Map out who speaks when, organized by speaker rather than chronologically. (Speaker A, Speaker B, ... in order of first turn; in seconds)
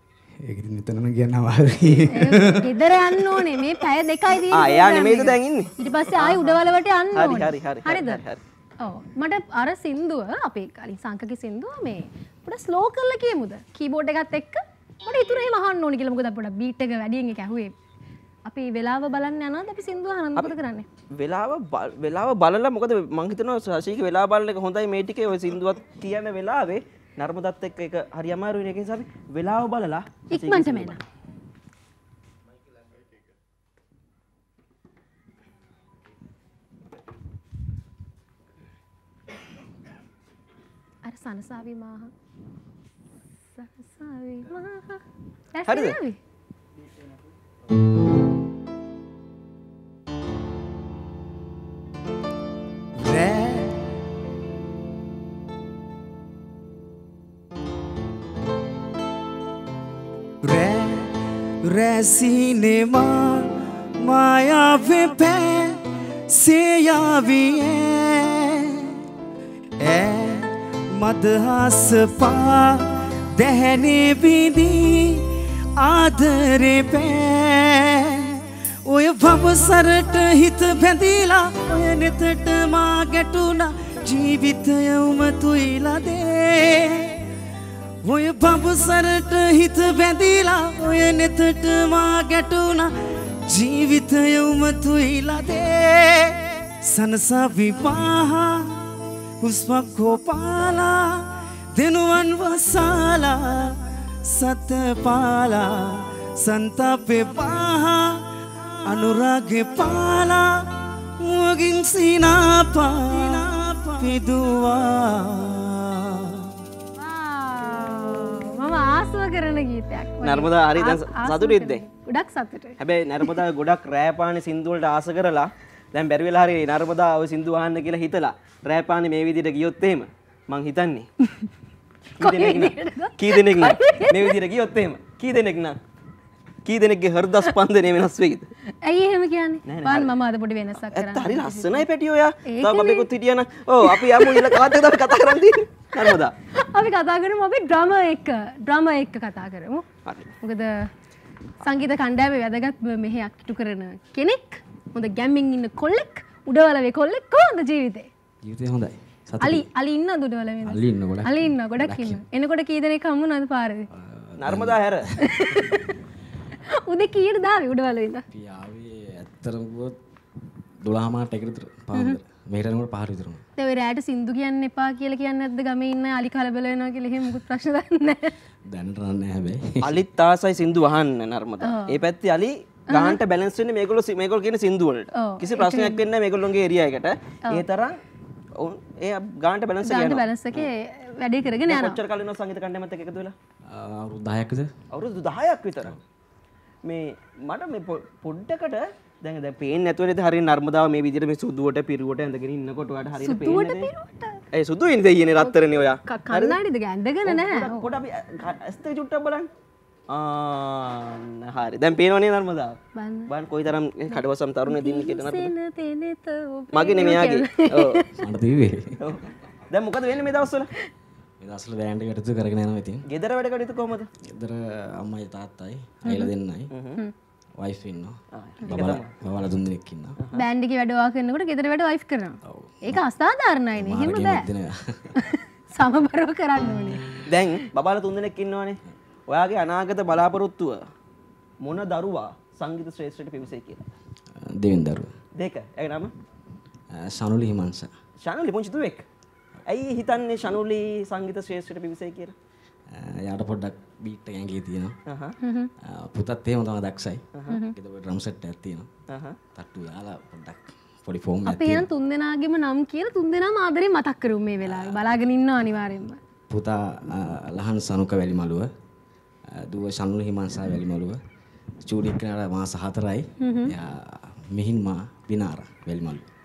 Speaker A: 0.4-2.8
Speaker B: 2.1-8.2, 8.8-17.7, 18.4-20.9, 30.3-31.0, 41.0-42.1, 43.5-45.0, 45.5-46.2, 117.0-122.8, 132.2-134.4, 138.8-141.8, 142.4-143.1, 143.8-145.4, 146.0-149.8, 150.4-150.9, 151.6-158.1, 159.4-163.9, 165.2-165.8, 166.8-168.2, 173.6-178.3, 181.6-182.0, 182.9-183.2, 185.1-186.0, 189.8-192.0, 203.2-204.4, 205.4-207.9, 212.9-213.3, 214.7-218.1, 226.1-226.3, 230.3-234.5, 235.2-237.1, 255.4-255.7, 261.4-266.2, 273.4-273.7
Speaker C: 4.5-6.6, 7.1-8.4, 21.2-30.9, 45.7-46.0, 120.2-121.8, 122.8-131.1, 132.2-135.8, 136.6-138.5, 139.7-140.1, 140.9-146.3, 164.4-165.0, 179.8-187.9, 188.6-190.7, 191.7-193.3, 194.9-195.9, 196.8-203.9, 204.5-206.6, 207.2-209.5, 210.1-212.8, 213.3-215.5, 216.7-218.0, 219.7-220.7, 223.1-224.1, 226.7-227.0, 228.4-229.1, 237.3-238.8, 239.3-240.8, 241.6-243.8, 245.4-246.1, 248.2-249.0, 249.7-252.3, 255.1-255.3, 259.1-259.4
Speaker D: 53.0-53.8, 60.4-61.1, 61.6-63.5, 64.0-68.9, 69.8-75.2, 75.8-78.3, 78.8-87.2, 88.0-92.9, 93.5-98.7, 99.4-103.7, 104.2-108.0, 108.9-110.5, 111.2-116.4
Speaker E: 158.4-159.7, 160.6-162.2, 163.9-164.8, 168.3-169.9, 170.8-173.4, 178.7-180.0, 193.7-194.7, 218.2-219.0, 221.4-223.0, 224.3-226.7, 227.6-230.2, 232.4-233.0, 233.7-235.1, 244.4-245.1, 246.9-247.9, 252.9-254.9, 255.8-258.9, 259.5-261.9, 264.7-264.9, 266.5-268.7, 269.5-271.2, 271.8-276.3